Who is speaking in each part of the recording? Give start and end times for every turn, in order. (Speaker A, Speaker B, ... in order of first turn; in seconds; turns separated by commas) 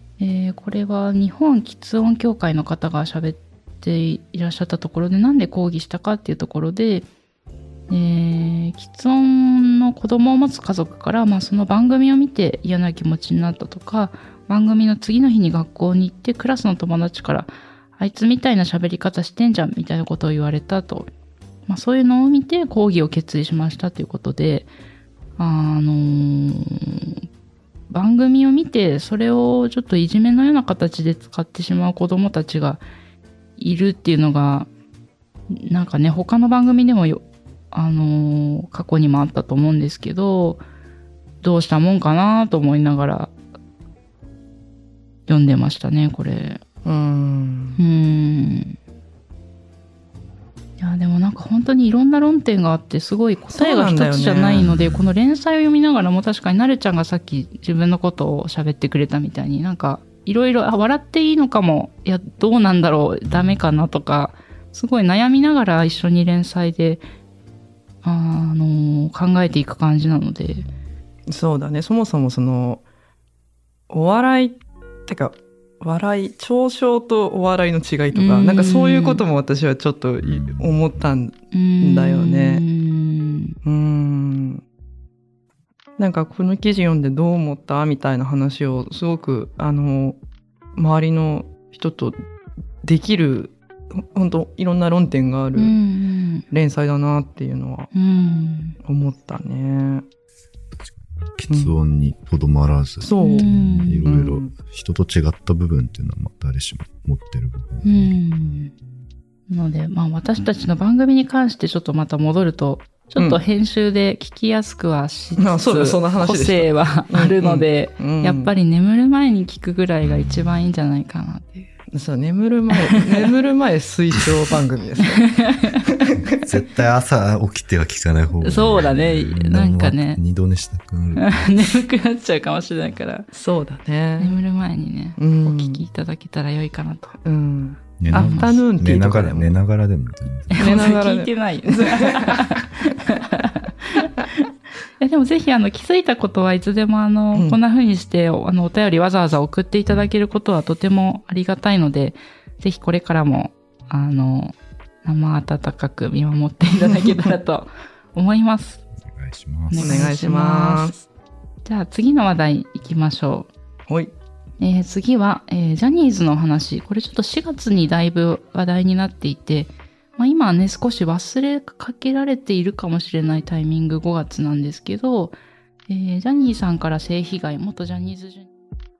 Speaker A: 0.2-7.0, Speaker A: 7.9-21.1, Speaker A: 21.7-24.7, Speaker A: 25.4-27.2, Speaker A: 27.9-32.8, Speaker A: 33.6-34.7, Speaker A: 35.5-40.6, Speaker A: 41.4-43.3, Speaker A: 45.3-46.6, Speaker B: 46.8-47.8, Speaker A: 47.8-48.8, Speaker A: 50.8-67.0, Speaker B: 53.5-54.9, Speaker A: 68.0-70.7, Speaker B: 71.3-72.8, Speaker B: 73.9-82.6, Speaker A: 78.1-79.2, Speaker C: 80.2-80.8, Speaker A: 81.5-83.5, Speaker B: 83.6-84.6, Speaker B: 86.0-90.2, Speaker B: 90.8-92.2, Speaker B: 92.8-95.7, Speaker A: 95.6-96.4, Speaker B: 96.5-97.9, Speaker A: 97.9-98.8, Speaker B: 98.8-100.0, Speaker C: 100.7-108.2, Speaker B: 101.5-101.7, Speaker B: 103.0-103.5, Speaker A: 103.2-104.0, Speaker B: 104.0-104.5, Speaker A: 107.8-108.7, Speaker A: 109.5-121.7, Speaker B: 115.4-118.5, Speaker C: 120.0-120.5, Speaker B: 121.9-125.2, Speaker A: 125.2-125.8, Speaker B: 125.9-126.4, Speaker C: 126.3-131.4, Speaker A: 128.4-130.2, Speaker A: 131.2-133.3, Speaker B: 133.3-134.4, Speaker A: 134.2-137.2, Speaker B: 135.2-135.8, Speaker B: 137.2-139.6, Speaker C: 138.0-140.9, Speaker A: 138.1-138.5, Speaker A: 140.5-144.4, Speaker B: 140.6-142.4, Speaker A: 145.0-158.8, Speaker C: 159.0-160.1, Speaker A: 159.7-161.1, Speaker B: 159.8-160.9, Speaker A: 161.6-163.5, Speaker B: 163.9-164.1, Speaker A: 164.6-175.3, Speaker A: 175.9-178.5